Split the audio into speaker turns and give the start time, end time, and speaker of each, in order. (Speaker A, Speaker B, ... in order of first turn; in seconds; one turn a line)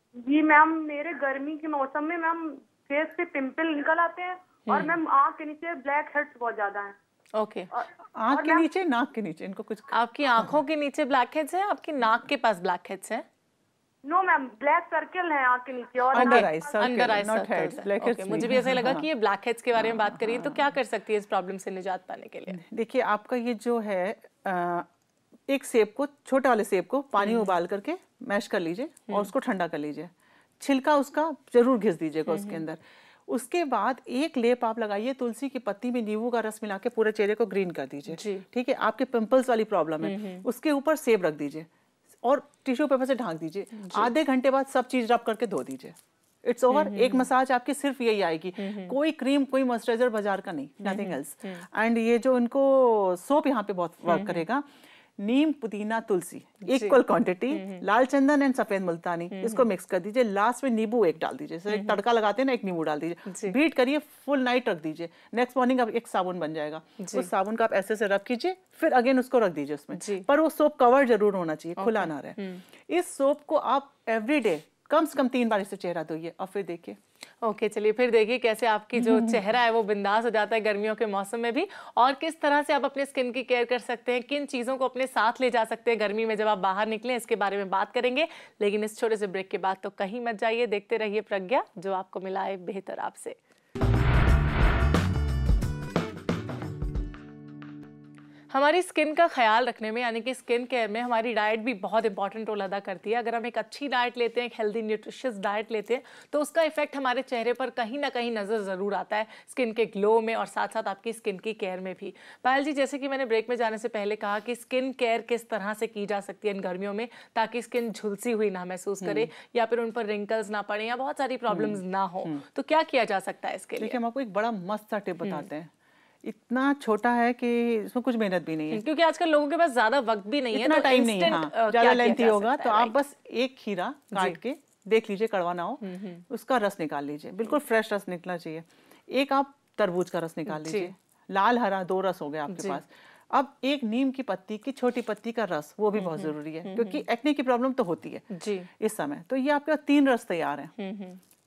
Speaker A: 0.2-6.9
Speaker B: 4.7-5.0
Speaker B: 7.3-7.7
Speaker A: 7.7-8.6
Speaker C: 8.2-9.9
Speaker B: 9.9-13.2
Speaker A: 14.0-16.5
Speaker C: 16.1-19.1
Speaker B: 16.1-22.6
Speaker C: 19.8-20.6
Speaker C: 22.5-24.9
Speaker C: 25.5-41.7
Speaker B: 27.2-27.5
Speaker B: 32.3-32.6
Speaker B: 38.1-38.4
Speaker B: 40.0-40.4
Speaker C: 42.2-54.6
Speaker B: 43.8-44.1
Speaker B: 46.7-47.3
Speaker B: 48.6-49.0
Speaker B: 50.8-51.6
Speaker B: 54.0-54.4
Speaker C: 55.2-77.0
Speaker B: 56.6-57.8
Speaker B: 59.3-59.6
Speaker B: 61.7-62.0
Speaker B: 63.3-63.5
Speaker B: 67.0-67.3
Speaker B: 69.9-70.2
Speaker B: 71.8-72.6
Speaker B: 77.4-93.4
Speaker C: 79.0-79.4
Speaker B: 98.5-124.0
Speaker C: 119.0-119.3
Speaker C: 121.5-122.4
Speaker C: 123.8-125.7
Speaker C: 126.2-128.8
Speaker B: 128.7-132.9
Speaker C: 130.5-148.2
Speaker B: 134.1-134.4
Speaker B: 135.8-136.2
Speaker B: 140.5-140.9
Speaker B: 142.5-142.8
Speaker B: 145.9-147.0
Speaker B: 148.3-148.7
Speaker C: 148.8-150.7
Speaker B: 150.8-151.2